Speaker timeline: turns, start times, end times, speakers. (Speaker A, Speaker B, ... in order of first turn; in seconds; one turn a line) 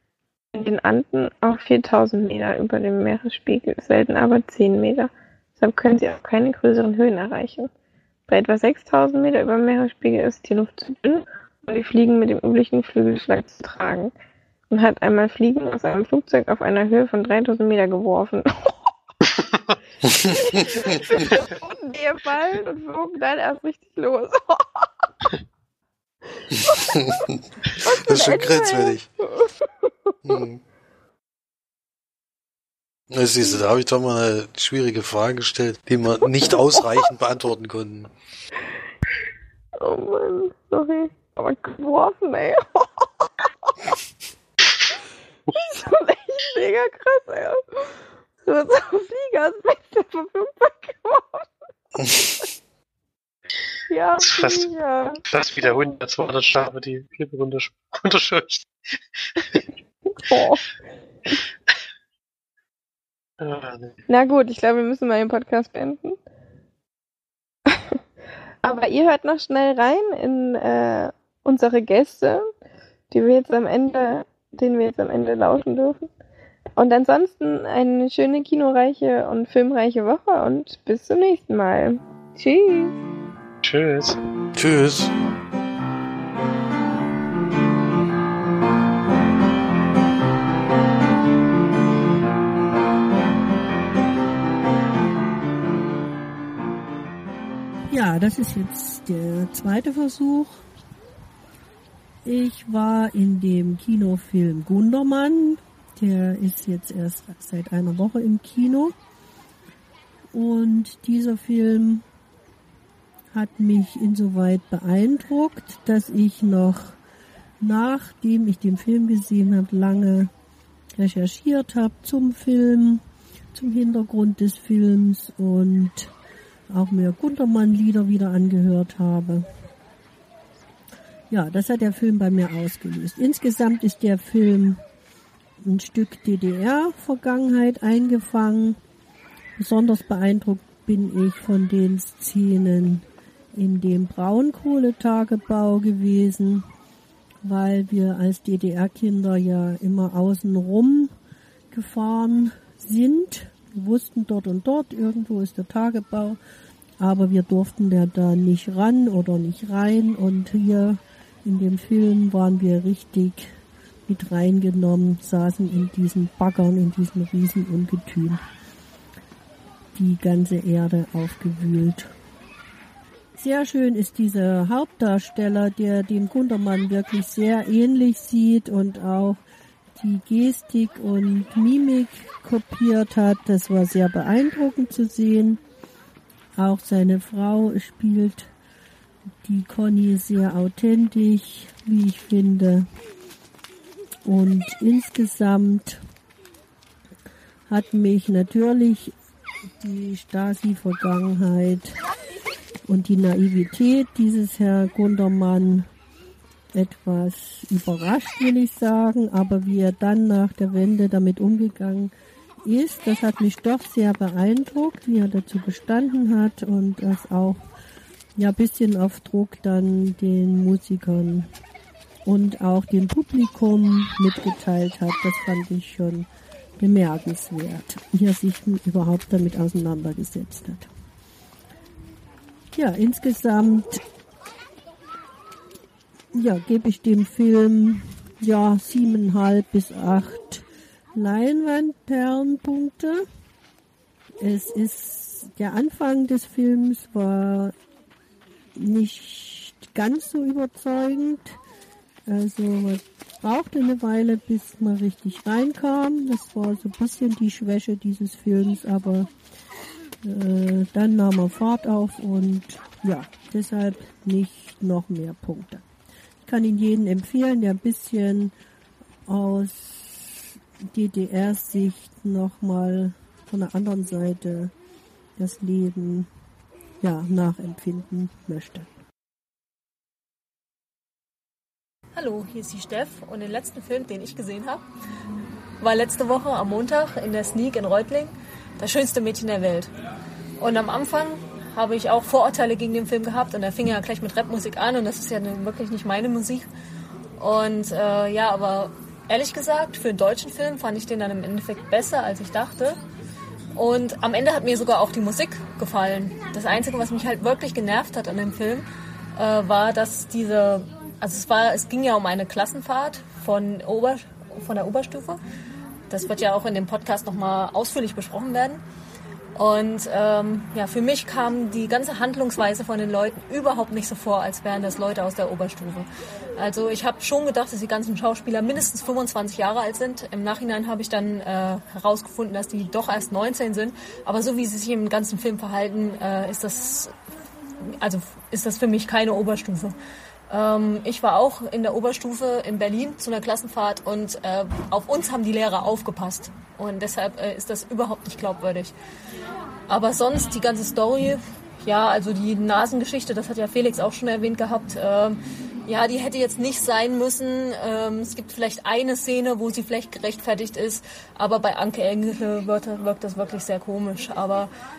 Speaker A: 0.5-7.7
Speaker A: 8.3-14.1
Speaker A: 14.7-18.8
Speaker B: 19.3-19.8
Speaker C: 20.0-20.6
Speaker A: 20.2-24.9
Speaker C: 26.5-27.4
Speaker A: 26.5-30.4
Speaker C: 28.1-29.1
Speaker C: 30.2-30.6
Speaker C: 33.1-38.1
Speaker A: 36.2-36.9
Speaker A: 39.8-43.7
Speaker A: 45.5-52.4
Speaker C: 52.0-52.3
Speaker A: 53.9-55.2
Speaker B: 54.2-54.7
Speaker B: 55.3-59.6
Speaker A: 60.2-60.6
Speaker B: 63.4-64.0
Speaker A: 64.1-66.2
Speaker A: 68.6-72.5
Speaker A: 73.1-76.0
Speaker A: 76.8-83.0
Speaker B: 83.6-84.2
Speaker C: 84.5-85.1
Speaker D: 97.9-100.6
Speaker D: 102.2-108.9
Speaker D: 110.3-112.0
Speaker D: 113.3-117.0
Speaker D: 117.6-120.3
Speaker D: 121.0-126.1
Speaker D: 126.7-129.5
Speaker D: 131.3-134.8
Speaker D: 135.6-138.8
Speaker D: 139.6-146.7
Speaker D: 147.4-151.1
Speaker D: 151.7-156.4
Speaker D: 157.0-163.5
Speaker D: 164.1-168.4
Speaker D: 169.9-172.1
Speaker D: 173.4-179.4
Speaker D: 180.0-185.6
Speaker D: 186.6-188.5
Speaker D: 189.4-192.9
Speaker D: 194.2-196.0
Speaker D: 197.7-199.1
Speaker D: 199.8-202.0
Speaker D: 202.9-205.9
Speaker D: 206.7-212.1
Speaker D: 212.7-217.6
Speaker D: 218.4-221.5
Speaker D: 222.3-226.3
Speaker D: 226.8-230.9
Speaker D: 232.7-234.0
Speaker D: 236.3-240.6
Speaker D: 241.2-243.3
Speaker D: 244.4-247.7
Speaker D: 248.8-251.6
Speaker D: 252.3-259.3
Speaker D: 260.2-265.8
Speaker D: 266.4-268.5
Speaker D: 269.3-274.7
Speaker D: 275.4-276.3
Speaker D: 277.0-278.9
Speaker E: 282.1-284.8
Speaker E: 285.8-289.9
Speaker E: 290.6-296.7
Speaker E: 297.4-303.0
Speaker E: 303.7-315.4
Speaker E: 316.1-318.8
Speaker E: 319.6-337.1
Speaker E: 337.9-339.9
Speaker E: 340.5-348.9
Speaker E: 349.9-364.7